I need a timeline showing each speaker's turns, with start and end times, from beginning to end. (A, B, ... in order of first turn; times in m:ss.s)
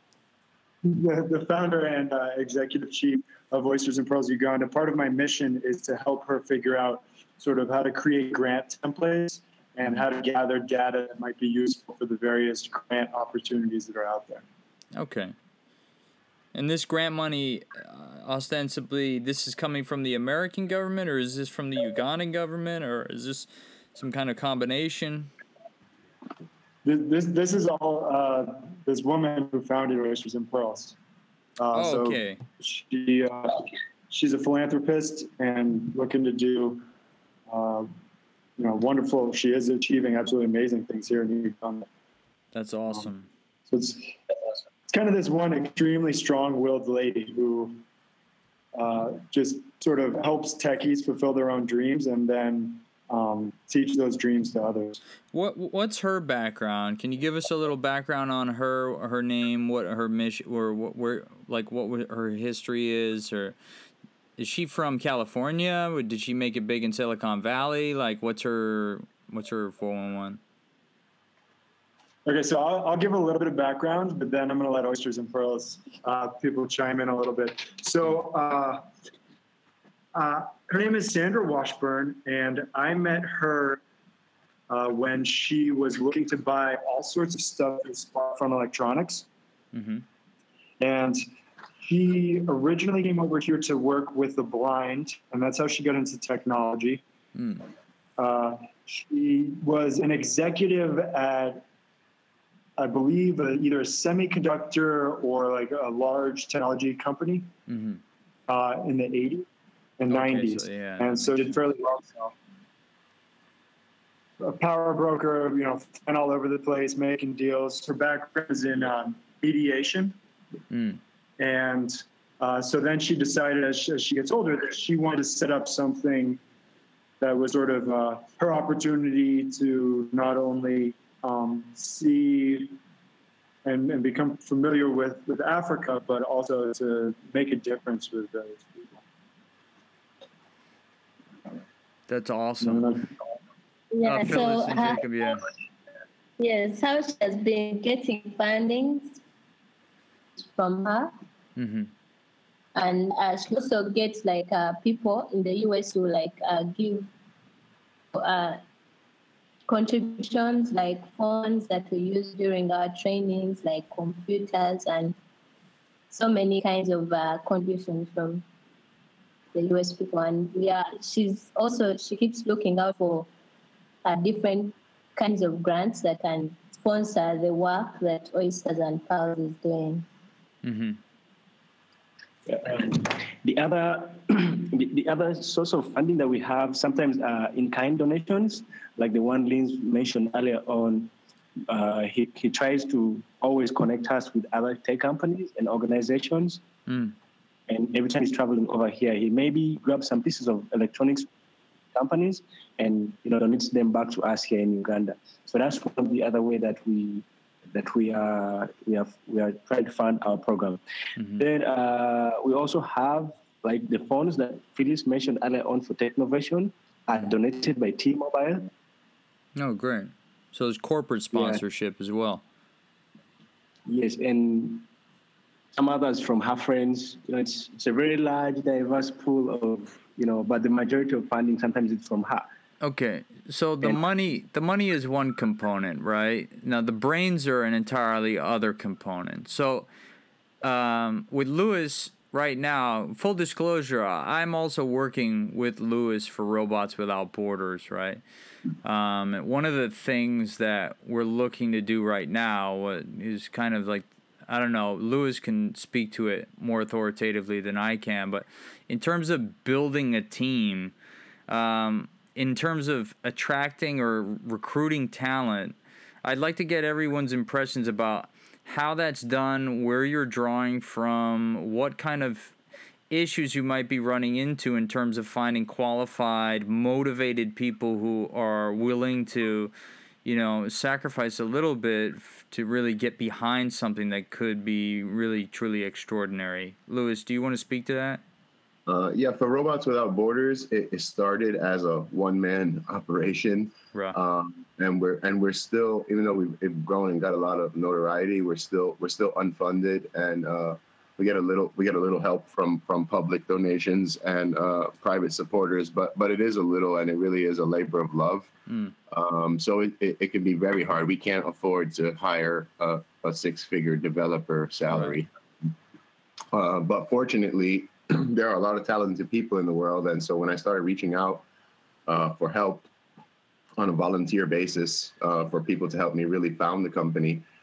0:00.8-0:14.4 A
0:15.0-0:15.3 B
0:16.5-0:25.3 B
0:26.8-0:31.0 A
0:31.6-0:36.8 A
0:31.7-0:32.4 B
0:37.5-0:37.9 A
0:38.6-0:41.9 A
0:42.5-0:43.3 B
0:43.7-0:44.1 A
0:44.9-0:47.8 A
0:48.8-0:55.0 A
0:55.3-1:03.6 B
1:04.4-1:10.4 B
1:12.2-1:18.8 A
1:20.1-1:23.8 A
1:24.7-1:29.3 A
1:29.7-1:30.0 B
1:30.8-1:31.2 A
1:31.8-1:37.0 A
1:37.4-1:37.7 B
1:38.2-1:41.6 A
1:42.8-1:47.5 A
1:47.7-1:48.0 B
1:48.5-1:49.5 A
1:50.0-1:52.4 A
1:50.1-1:51.6 B
1:54.4-2:00.2 A
2:00.7-2:01.0 B
2:01.4-2:06.4 A
2:07.2-2:12.8 A
2:13.6-2:19.0 A
2:22.1-2:23.0 B
2:22.6-2:23.0 A
2:23.9-2:25.0 C
2:24.0-2:25.4 B
2:26.4-2:29.2 C
2:30.4-2:31.1 C
2:31.6-2:31.9 B
2:32.8-2:37.1 C
2:38.1-2:38.6 C
2:39.7-2:45.2 C
2:46.1-2:48.4 C
2:49.5-2:53.3 C
2:54.0-3:00.1 C
3:00.6-3:01.0 B
3:02.5-3:11.1 D
3:11.7-3:16.6 D
3:16.9-3:17.2 B
3:17.7-3:21.3 D
3:21.9-3:30.8 D
3:31.2-3:31.4 B
3:31.4-3:38.7 D
3:39.6-3:42.4 B
3:41.3-3:41.6 D
3:43.9-3:44.9 D
3:45.7-3:52.5 D
3:52.8-3:59.9 B
4:00.6-4:08.2 B
4:08.8-4:20.9 B
4:21.5-4:32.6 B
4:33.1-4:39.7 B
4:40.2-4:48.2 B
4:48.9-5:08.5 E
5:08.7-5:08.9 B
5:09.1-5:15.3 E
5:16.5-5:21.4 E
5:22.1-5:22.9 E
5:23.8-5:27.4 E